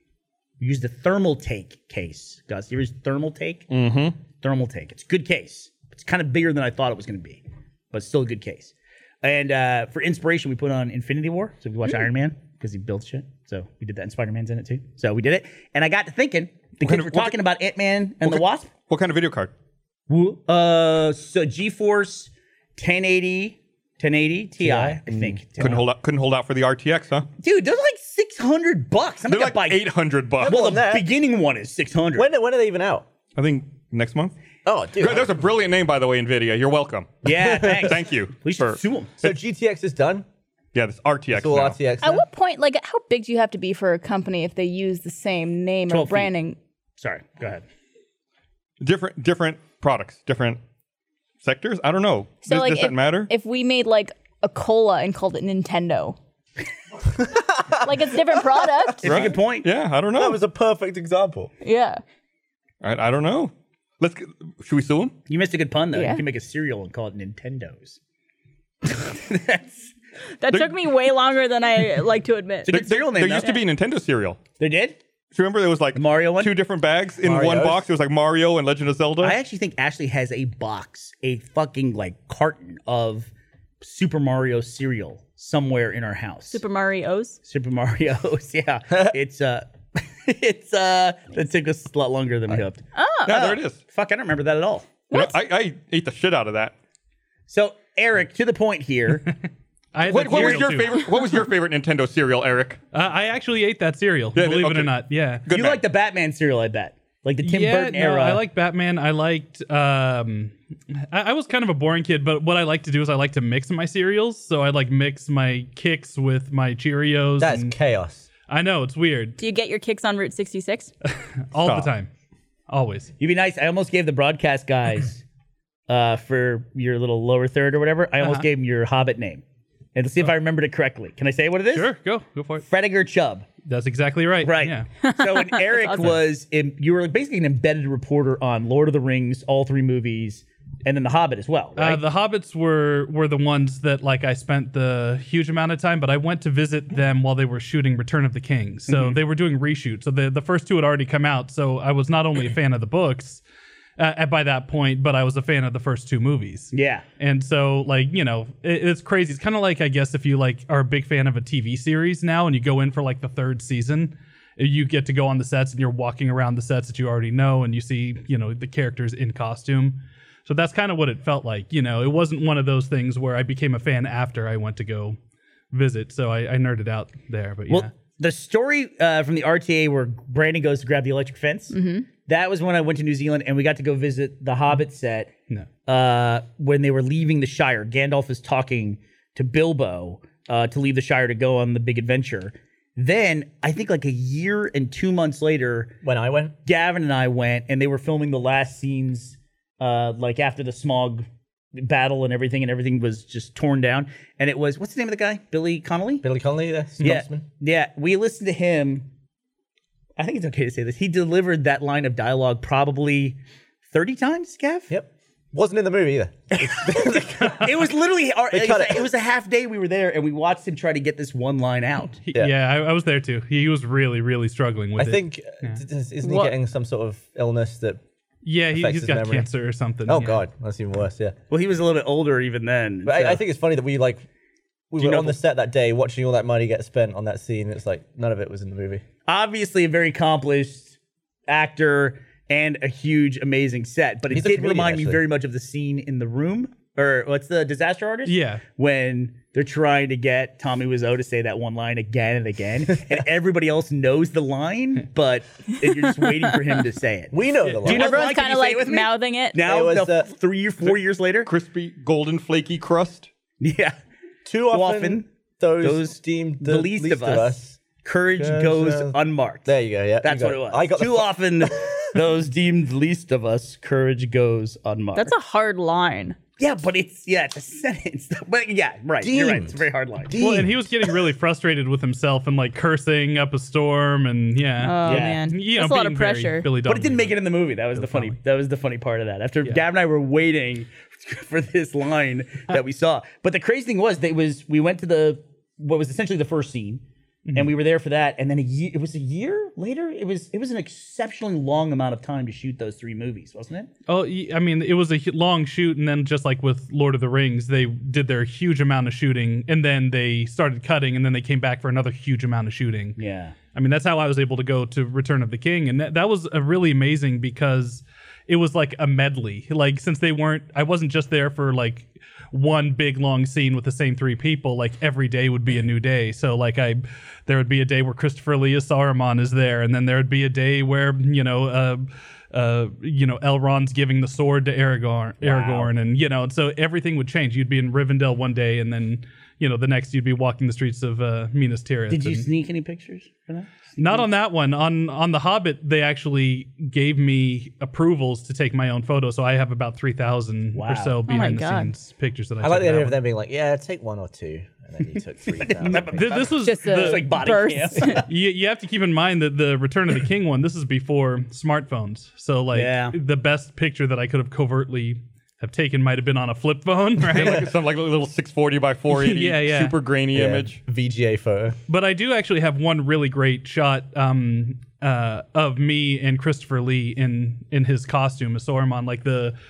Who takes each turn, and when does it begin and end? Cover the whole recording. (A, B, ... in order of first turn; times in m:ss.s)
0:00.6-0:18.7 A
0:03.7-0:04.1 B
0:16.8-0:17.4 B
0:18.2-0:19.5 B
0:20.1-0:25.8 A
0:24.6-0:25.4 C
0:25.6-0:27.3 B
0:27.4-0:29.9 A
0:29.3-0:30.6 B
0:30.4-0:31.1 C
0:30.4-0:32.3 A
0:32.2-0:33.0 C
0:33.4-0:34.3 B
0:34.6-0:35.3 C
0:35.0-0:39.3 B
0:37.2-0:39.1 A
0:39.2-0:40.2 C
0:40.7-0:41.8 B
0:41.3-0:42.2 C
0:42.0-0:46.6 D
0:45.9-0:46.3 A
0:47.0-0:47.6 A
0:48.8-0:50.6 B
0:51.4-0:53.3 B
0:52.4-0:56.2 D
0:57.3-0:58.0 C
0:57.8-0:59.1 D
0:59.0-0:59.7 A
0:59.0-1:00.4 B
1:00.2-1:01.5 C
1:01.6-1:02.0 D
1:02.8-1:05.2 B
1:05.3-1:08.0 A
1:05.9-1:06.2 D
1:08.8-1:09.9 A
1:10.4-1:12.8 D
1:12.7-1:13.6 A
1:12.7-1:14.4 B
1:14.6-1:15.0 A
1:15.3-1:19.4 B
1:15.9-1:16.5 A
1:17.2-1:17.9 C
1:19.2-1:26.6 A
1:26.5-1:27.4 D
1:27.4-1:35.0 A
1:32.9-1:33.4 D
1:33.3-1:33.8 B
1:35.1-1:35.4 D
1:35.1-1:36.7 B
1:37.5-1:39.3 A
1:39.9-1:41.0 E
1:40.0-1:40.9 A
1:40.1-1:42.8 B
1:42.9-1:45.4 E
1:44.4-1:44.9 B
1:45.4-1:45.8 B
1:45.5-1:48.4 A
1:47.4-1:57.7 E
1:57.4-1:58.3 C
1:58.5-1:59.4 E
1:59.4-2:00.9 D
2:01.5-2:02.1 E
2:01.6-2:01.9 B
2:02.7-2:03.1 E
2:03.2-2:05.2 A
2:05.9-2:09.4 A
2:08.2-2:08.5 E
2:09.9-2:11.9 A
2:11.7-2:12.6 E
2:12.6-2:13.5 A
2:13.6-2:14.9 E
2:14.4-2:22.0 A
2:15.0-2:16.2 D
2:21.8-2:33.4 E
2:28.9-2:29.2 A
2:34.0-2:55.2 E
2:36.7-2:37.0 A
2:55.7-2:57.9 E
2:57.7-3:05.3 A
3:01.7-3:02.1 D
3:05.8-3:15.9 A
3:16.0-3:16.5 C
3:16.6-3:26.2 A
3:26.2-3:27.4 C
3:27.0-3:29.1 A
3:30.2-3:34.9 A
3:34.9-3:37.5 C
3:36.5-3:42.2 A
3:37.3-3:37.7 E
3:38.5-3:39.1 C
3:42.2-3:45.8 E
3:45.0-3:48.0 C
3:46.2-3:46.5 D
3:48.4-3:50.4 E
3:48.7-3:49.5 C
3:50.0-3:51.4 C
3:51.5-3:53.4 A
3:53.0-3:54.2 C
3:54.9-3:59.0 C
3:55.0-3:55.4 A
3:59.3-4:01.0 A
4:01.5-4:21.5 A
4:04.3-4:05.3 C
4:08.2-4:08.6 E
4:16.2-4:16.6 D
4:17.3-4:18.3 C
4:17.8-4:19.6 D
4:19.6-4:20.3 C
4:21.4-4:23.3 B
4:23.6-4:24.0 A
4:24.4-4:27.8 C
4:24.7-4:25.2 A
4:25.8-4:35.3 A
4:28.3-4:32.0 C
4:35.1-4:36.4 D
4:36.6-4:40.4 A
4:39.2-4:41.1 C
4:40.4-4:47.4 E
4:44.8-4:46.7 D
4:45.0-4:45.4 A
4:46.8-4:57.0 A
4:47.9-4:48.4 E
4:57.4-4:57.7 E
4:57.5-5:03.9 A
5:04.1-5:13.2 E
5:13.2-5:13.6 A
5:13.7-5:42.5 E
5:35.4-5:35.9 A
5:42.1-5:44.3 A
5:44.0-5:53.2 E
5:50.7-5:51.2 A
5:51.2-5:51.9 D
5:52.6-5:56.4 C
5:55.6-5:58.2 A
5:55.9-5:57.3 E
5:56.6-5:58.2 D
5:58.3-6:07.6 E
6:02.7-6:03.2 A
6:07.3-6:10.8 B
6:07.4-6:07.6 C
6:09.1-6:10.0 E
6:10.3-6:11.8 C
6:11.9-6:19.6 E